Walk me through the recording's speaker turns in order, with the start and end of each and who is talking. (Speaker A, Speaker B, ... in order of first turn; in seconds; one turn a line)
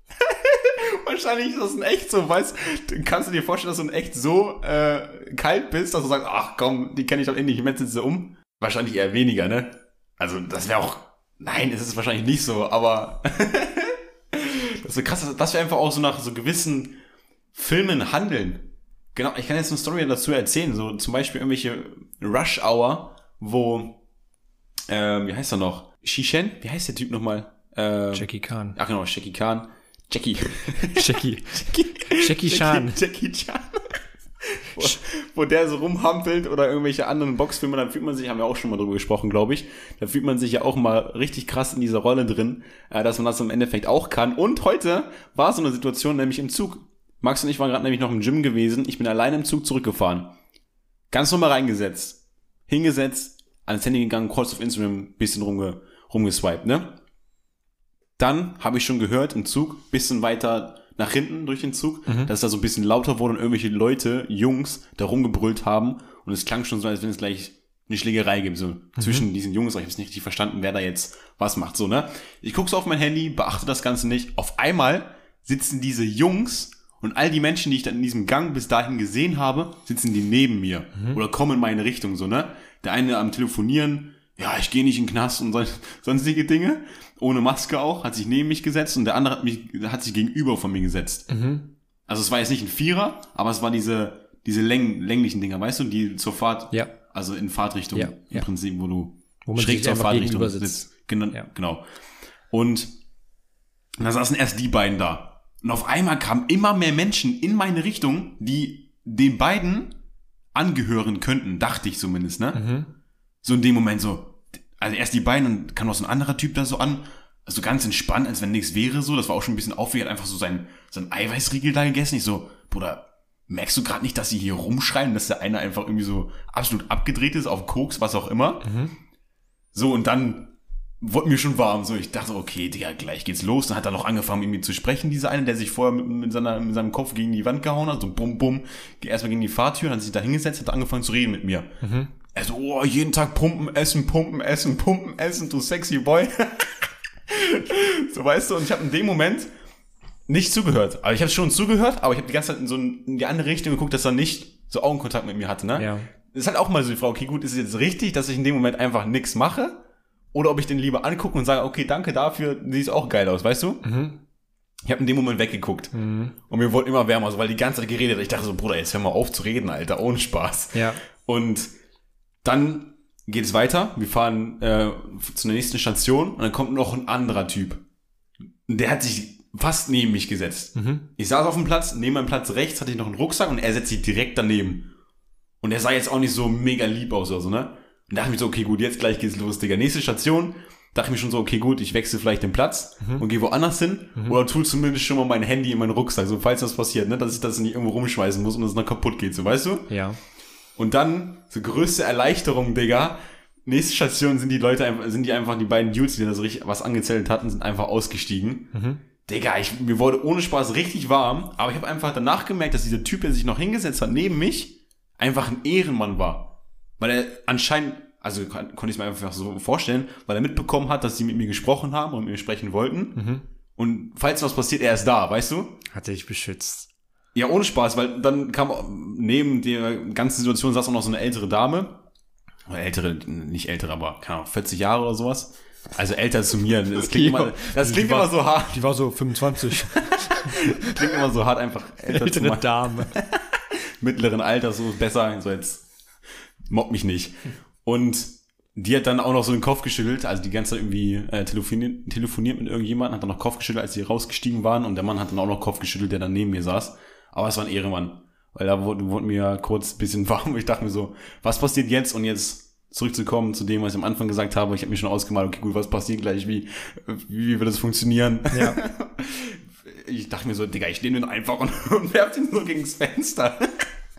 Speaker A: 0.2-17.0
Speaker A: 17.5-24.0
Speaker A: 24.9-50.3
Speaker B: 28.1-28.8
Speaker B: 30.9-33.0
Speaker A: 51.1-57.0
Speaker A: 58.2-91.3
Speaker B: 62.1-62.3
Speaker B: 69.0-69.3
Speaker B: 91.3-91.7
Speaker A: 92.1-101.8
Speaker B: 97.9-98.5
Speaker B: 99.5-101.5
Speaker A: 102.5-102.9
Speaker A: 104.0-110.0
Speaker A: 110.5-112.6
Speaker B: 112.5-112.9
Speaker A: 113.4-128.7
Speaker B: 128.6-128.9
Speaker A: 129.7-141.8
Speaker B: 141.8-142.1
Speaker A: 142.3-149.5
Speaker A: 150.3-163.8
Speaker B: 155.8-156.1
Speaker B: 163.8-164.2
Speaker A: 164.9-166.0
Speaker B: 165.9-166.3
Speaker A: 166.5-171.7
Speaker B: 170.7-171.0
Speaker A: 172.4-177.8
Speaker A: 178.7-184.9
Speaker B: 180.8-181.1
Speaker A: 185.6-199.9
Speaker B: 199.9-200.2
Speaker A: 200.8-208.7
Speaker B: 208.7-209.0
Speaker A: 209.2-223.2
Speaker B: 223.2-223.5
Speaker A: 223.8-225.8
Speaker B: 225.9-226.9
Speaker A: 227.3-232.0
Speaker A: 232.7-238.8
Speaker B: 237.0-241.2
Speaker A: 239.9-245.9
Speaker B: 242.1-243.1
Speaker A: 246.7-273.9
Speaker B: 268.5-268.8